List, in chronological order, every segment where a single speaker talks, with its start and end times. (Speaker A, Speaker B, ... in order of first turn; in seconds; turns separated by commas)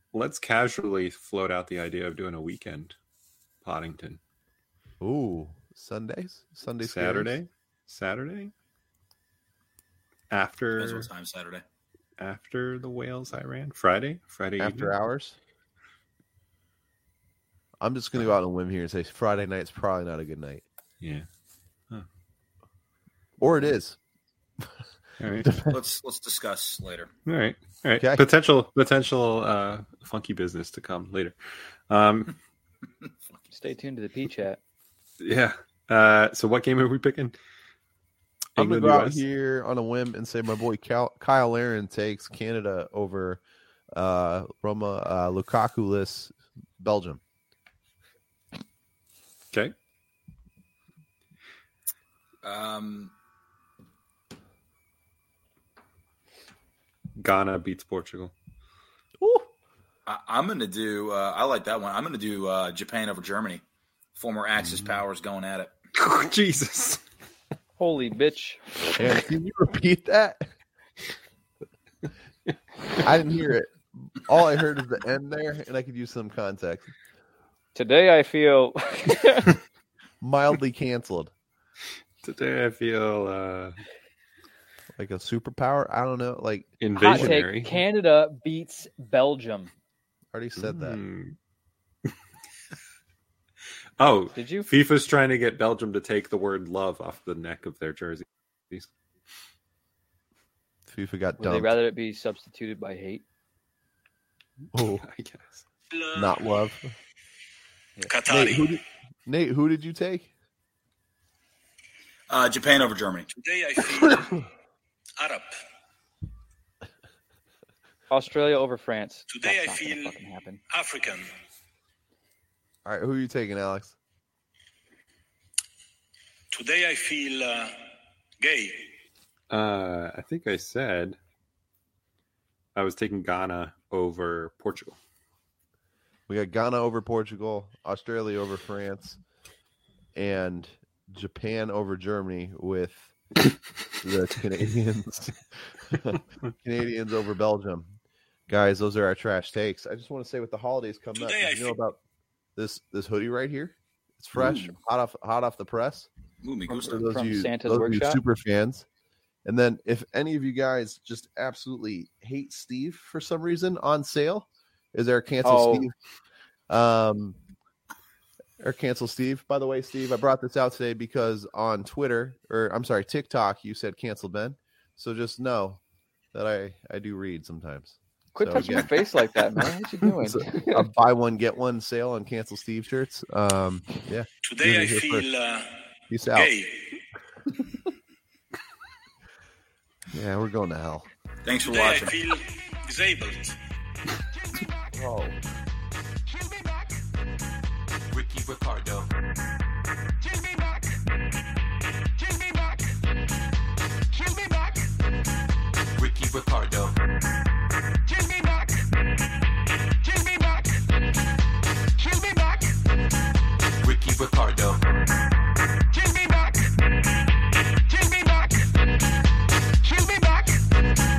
Speaker A: 0.1-2.9, Speaker A: 3.6-4.2, Speaker B: 5.0-7.3, Speaker A: 6.8-8.5, Speaker A: 10.3-11.1, Speaker C: 10.8-11.6, Speaker A: 12.2-14.9, Speaker B: 14.6-15.4, Speaker B: 17.8-20.6, Speaker A: 21.0-21.2, Speaker B: 23.4-24.0, Speaker A: 25.2-25.5, Speaker B: 25.4-25.8, Speaker C: 25.7-27.1, Speaker A: 27.2-31.4, Speaker B: 28.0-28.2, Speaker A: 31.9-32.3, Speaker D: 33.5-34.6, Speaker A: 35.2-37.3, Speaker A: 38.5-39.2, Speaker B: 38.6-43.4, Speaker B: 43.9-47.2, Speaker C: 52.4-53.1, Speaker A: 57.2-58.3, Speaker B: 59.2-59.5, Speaker C: 60.0-63.6, Speaker C: 64.2-65.7, Speaker A: 64.6-65.0, Speaker A: 65.9-67.0, Speaker D: 67.8-69.2, Speaker B: 69.0-70.5, Speaker B: 73.0-76.9, Speaker D: 77.7-79.5, Speaker B: 80.2-81.3, Speaker A: 82.2-83.8, Speaker B: 85.0-87.4, Speaker A: 86.8-87.8, Speaker D: 87.0-89.7, Speaker B: 90.3-91.0, Speaker A: 90.5-91.3, Speaker A: 94.0-98.9, Speaker D: 94.3-94.7, Speaker B: 100.8-101.8, Speaker D: 101.4-103.2, Speaker B: 104.7-105.0, Speaker A: 105.0-105.6, Speaker E: 105.9-106.6, Speaker B: 106.1-106.9, Speaker E: 108.1-108.8, Speaker B: 108.3-110.3, Speaker C: 112.3-113.3, Speaker E: 113.3-114.5, Speaker E: 115.2-115.5, Speaker D: 118.1-120.6, Speaker E: 119.3-120.1, Speaker E: 120.7-121.3, Speaker B: 122.8-124.0, Speaker E: 126.5-127.8, Speaker E: 128.4-128.9, Speaker A: 129.5-131.2, Speaker A: 132.7-135.0, Speaker B: 136.3-139.2, Speaker B: 140.1-143.1, Speaker B: 144.0-147.9, Speaker B: 148.5-152.0, Speaker E: 151.2-151.8, Speaker B: 152.6-156.1, Speaker C: 154.3-154.7, Speaker C: 156.4-157.0, Speaker B: 156.7-158.8, Speaker D: 156.7-158.2, Speaker B: 159.4-165.9, Speaker D: 165.4-165.9, Speaker B: 166.7-167.4, Speaker B: 168.6-175.8, Speaker B: 176.3-179.1, Speaker D: 178.3-180.9, Speaker B: 180.2-185.2, Speaker E: 184.4-187.0, Speaker B: 186.1-186.5, Speaker B: 190.1-191.1, Speaker C: 191.4-192.1, Speaker E: 191.6-193.6, Speaker F: 194.3-195.2, Speaker B: 194.9-195.3, Speaker F: 196.2-196.9, Speaker F: 198.1-199.1, Speaker F: 200.2-201.0, Speaker F: 202.2-202.9, Speaker F: 204.1-204.8, Speaker F: 205.9-207.0, Speaker F: 208.0-208.9, Speaker F: 210.0-210.8, Speaker F: 212.0-212.8, Speaker F: 213.8-215.3, Speaker F: 215.9-216.7, Speaker F: 217.9-218.7, Speaker F: 219.8-220.6